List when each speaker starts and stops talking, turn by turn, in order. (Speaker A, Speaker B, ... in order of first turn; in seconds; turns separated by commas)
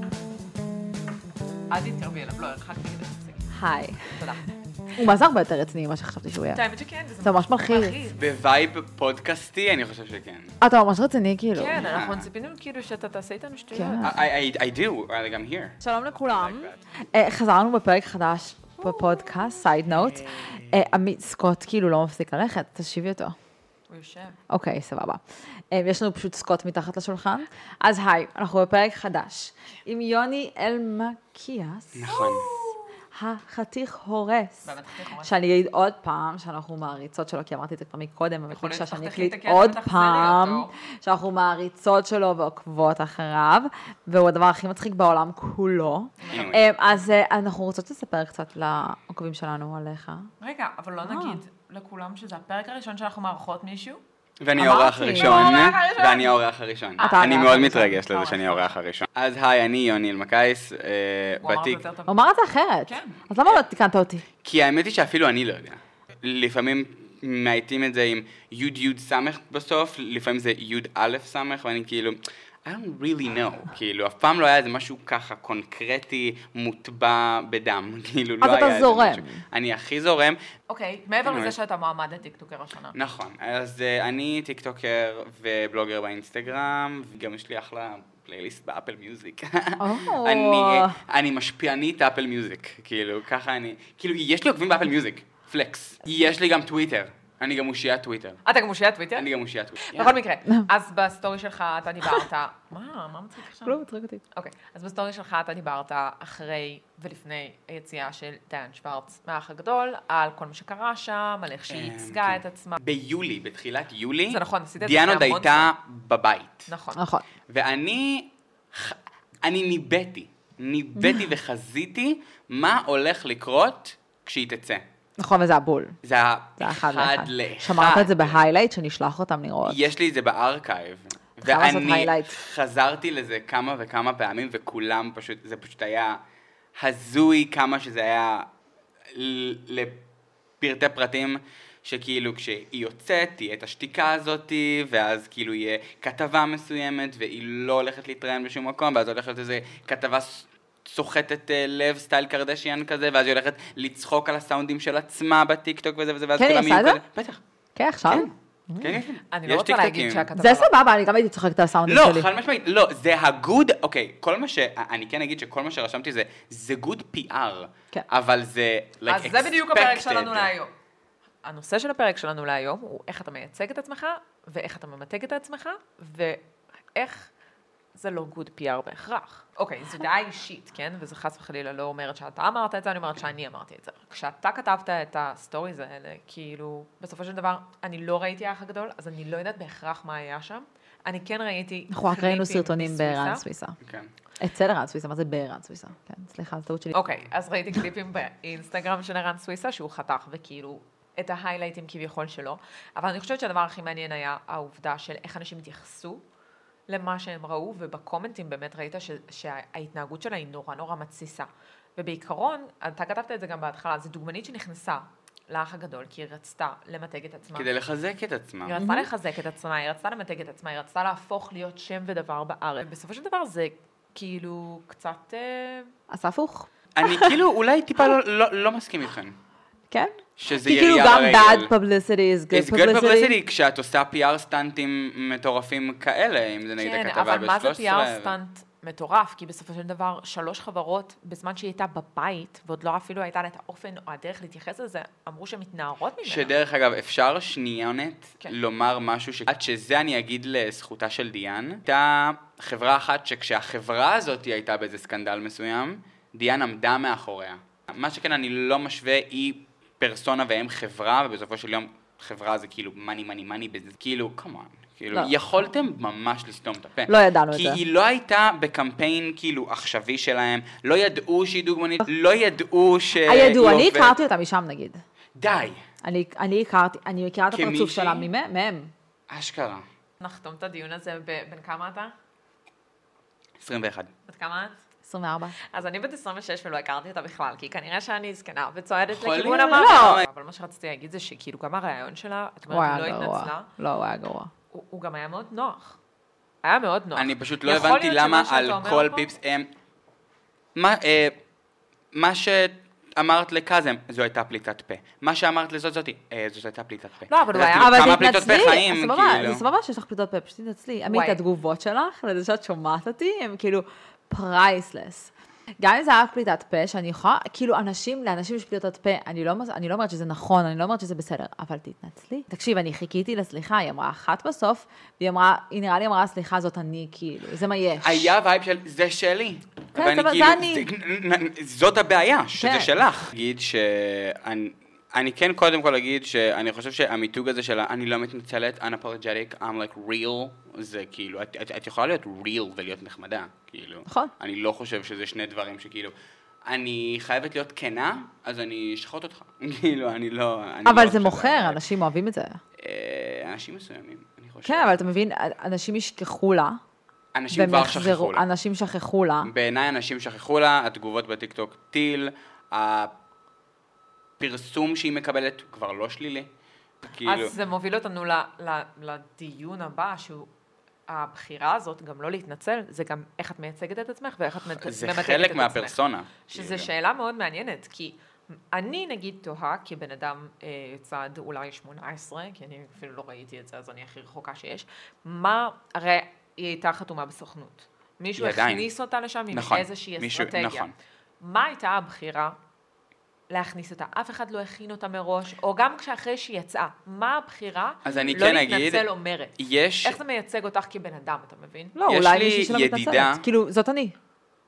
Speaker A: 1.7-3.5, Speaker B: 3.5-4.2, Speaker A: 4.1-4.4, Speaker B: 5.0-6.6, Speaker A: 6.5-8.2, Speaker B: 7.2-8.0, Speaker C: 8.1-10.5, Speaker B: 10.6-11.8, Speaker A: 11.5-14.1, Speaker C: 11.7-12.3, Speaker B: 13.7-14.2, Speaker C: 14.0-16.8, Speaker B: 15.8-23.3, Speaker C: 20.2-21.0, Speaker A: 23.9-24.4, Speaker B: 24.5-32.2, Speaker C: 31.9-32.5, Speaker A: 32.1-32.7, Speaker B: 33.1-34.7, Speaker A: 34.6-35.3, Speaker B: 35.2-50.3, Speaker A: 38.5-40.7, Speaker A: 46.2-47.0, Speaker C: 46.3-46.6, Speaker A: 50.4-54.0, Speaker B: 51.0-51.4, Speaker C: 54.4-61.8, Speaker B: 54.5-55.5, Speaker A: 55.1-56.4, Speaker A: 57.0-58.8, Speaker B: 57.0-58.0, Speaker A: 61.4-62.2, Speaker B: 62.0-64.2, Speaker A: 62.9-63.2, Speaker C: 64.4-80.4, Speaker B: 78.4-79.4, Speaker A: 80.7-82.9, Speaker C: 81.2-81.5, Speaker C: 82.9-98.4, Speaker B: 89.8-91.0, Speaker A: 98.4-99.3, Speaker C: 99.1-100.2, Speaker A: 99.8-103.8, Speaker B: 103.6-104.2, Speaker A: 104.3-112.8, Speaker C: 111.7-116.7, Speaker A: 114.3-115.7, Speaker A: 116.7-117.0, Speaker B: 116.9-117.2, Speaker C: 117.5-124.8, Speaker B: 121.0-121.3, Speaker B: 125.2-125.9, Speaker C: 126.0-128.4, Speaker B: 126.6-129.8, Speaker C: 129.6-136.2, Speaker B: 131.4-132.4, Speaker C: 136.8-138.5, Speaker C: 139.1-140.0, Speaker C: 140.6-157.4, Speaker B: 156.3-157.0, Speaker B: 157.8-159.0, Speaker C: 158.1-160.3, Speaker A: 159.3-160.7, Speaker B: 160.3-162.3, Speaker C: 161.8-170.5, Speaker A: 169.1-170.7, Speaker A: 171.4-176.4, Speaker A: 176.9-177.3, Speaker A: 177.9-193.4, Speaker B: 191.9-193.8, Speaker C: 193.8-194.1, Speaker B: 194.4-196.9, Speaker A: 196.9-206.2, Speaker A: 206.9-217.7, Speaker C: 217.5-218.8, Speaker A: 218.6-225.9, Speaker B: 218.8-219.1, Speaker B: 226.1-227.4, Speaker C: 226.9-229.3, Speaker B: 229.9-233.4, Speaker C: 230.4-231.7, Speaker C: 232.5-238.3, Speaker A: 236.8-246.5, Speaker C: 246.2-274.2, Speaker B: 267.1-267.8, Speaker B: 273.2-275.0, Speaker C: 275.4-275.8, Speaker B: 276.0-278.9, Speaker C: 277.5-278.3, Speaker C: 279.3-279.8, Speaker A: 280.2-282.1, Speaker C: 283.6-284.1, Speaker A: 284.3-284.8, Speaker B: 285.1-285.6, Speaker A: 285.7-293.7, Speaker C: 289.1-290.2, Speaker B: 289.7-290.2, Speaker B: 292.7-294.5, Speaker A: 294.7-296.0, Speaker A: 296.6-299.3, Speaker C: 297.1-299.7, Speaker C: 300.8-301.4, Speaker C: 302.1-309.6, Speaker A: 307.3-308.3, Speaker B: 307.7-328.3, Speaker A: 311.0-311.4, Speaker C: 328.0-346.1, Speaker B: 329.9-330.9, Speaker B: 332.5-333.0, Speaker B: 344.1-344.3, Speaker C: 346.7-351.8, Speaker B: 350.8-352.6, Speaker C: 352.8-355.0, Speaker B: 354.6-356.8, Speaker C: 357.3-358.5, Speaker B: 357.5-359.5, Speaker C: 359.4-363.1, Speaker C: 364.4-366.5, Speaker C: 367.0-367.5, Speaker A: 367.2-370.5, Speaker A: 371.1-378.2, Speaker C: 374.8-376.9, Speaker A: 378.7-392.6, Speaker C: 388.4-388.9, Speaker C: 389.5-390.9, Speaker A: 393.5-401.9, Speaker C: 398.0-399.1, Speaker C: 399.6-400.2, Speaker B: 401.9-404.1, Speaker C: 402.1-403.4